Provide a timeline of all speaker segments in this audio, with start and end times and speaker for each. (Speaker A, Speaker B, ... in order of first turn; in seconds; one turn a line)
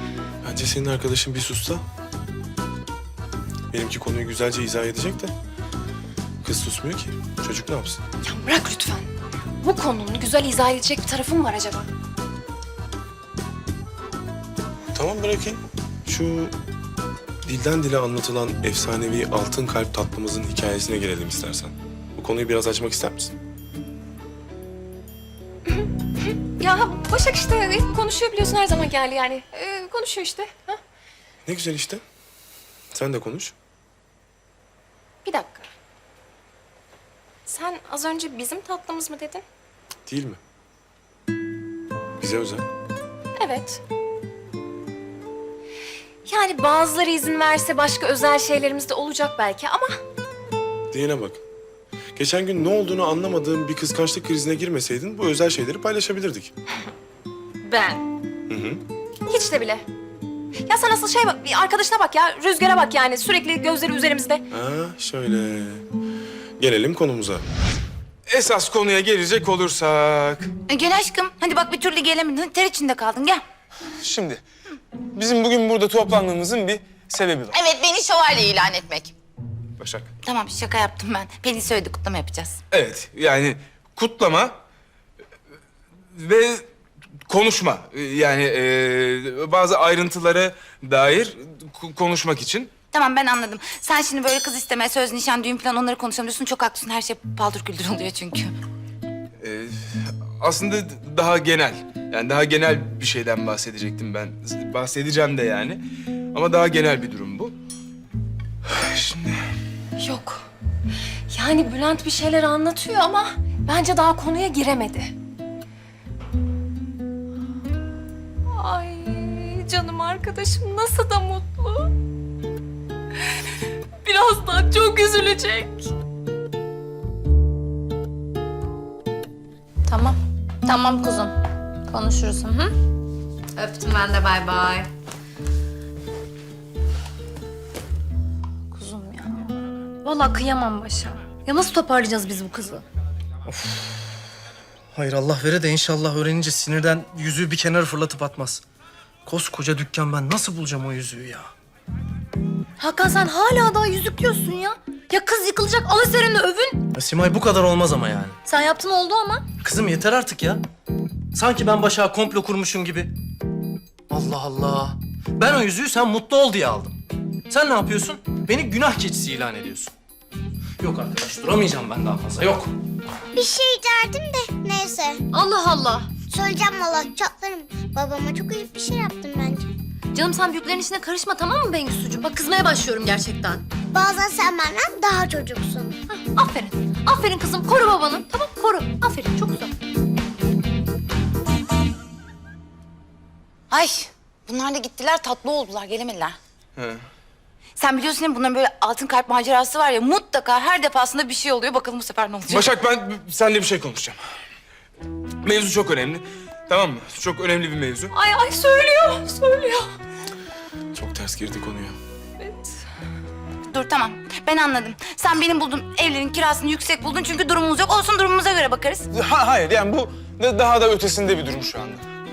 Speaker A: 0.4-1.8
Speaker A: 3.7-5.3
Speaker A: 6.4-8.0
Speaker B: 8.2-9.1
Speaker B: 9.6-11.9
Speaker A: 14.9-16.6
Speaker A: 17.4-23.4
Speaker B: 26.6-30.8
Speaker A: 31.5-32.0
Speaker A: 32.9-33.5
Speaker B: 35.2-35.7
Speaker B: 37.5-39.4
Speaker A: 40.1-40.4
Speaker A: 42.2-42.7
Speaker B: 43.4-43.8
Speaker B: 46.3-50.0
Speaker A: 50.9-51.4
Speaker A: 52.1-56.5
Speaker B: 57.6-58.0
Speaker A: 58.5-58.8
Speaker B: 59.3-59.9
Speaker B: 60.7-64.4
Speaker A: 64.5-65.8
Speaker A: 66.6-67.5
Speaker C: 68.3-70.5
Speaker D: 70.7-73.4
Speaker C: 74.0-74.4
Speaker C: 75.1-77.6
Speaker D: 77.5-79.1
Speaker C: 79.8-80.1
Speaker D: 80.2-82.6
Speaker C: 82.7-84.5
Speaker C: 86.2-86.7
Speaker C: 87.3-92.7
Speaker D: 92.9-98.5
Speaker C: 99.4-105.8
Speaker C: 106.3-107.5
Speaker C: 108.7-109.4
Speaker B: 110.0-110.5
Speaker B: 111.3-115.1
Speaker B: 118.5-121.9
Speaker B: 124.0-125.9
Speaker E: 129.9-131.3
Speaker E: 131.9-132.7
Speaker E: 133.6-134.9
Speaker E: 138.7-139.5
Speaker E: 140.0-142.8
Speaker F: 143.5-144.1
Speaker F: 144.9-148.6
Speaker F: 149.3-151.5
Speaker E: 152.8-156.9
Speaker F: 156.9-158.4
Speaker E: 158.5-159.5
Speaker F: 159.6-160.6
Speaker F: 161.3-163.1
Speaker F: 164.1-169.9
Speaker F: 170.8-172.8
Speaker G: 173.4-175.2
Speaker E: 175.3-176.1
Speaker G: 176.3-179.6
Speaker E: 180.1-183.7
Speaker G: 183.9-185.9
Speaker B: 186.1-186.7
Speaker E: 186.4-189.7
Speaker D: 193.7-196.4
Speaker D: 197.8-202.7
Speaker C: 202.5-204.2
Speaker C: 205.4-208.1
Speaker B: 208.1-209.9
Speaker A: 210.9-212.0
Speaker B: 212.4-212.8
Speaker D: 213.7-219.1
Speaker C: 219.1-222.1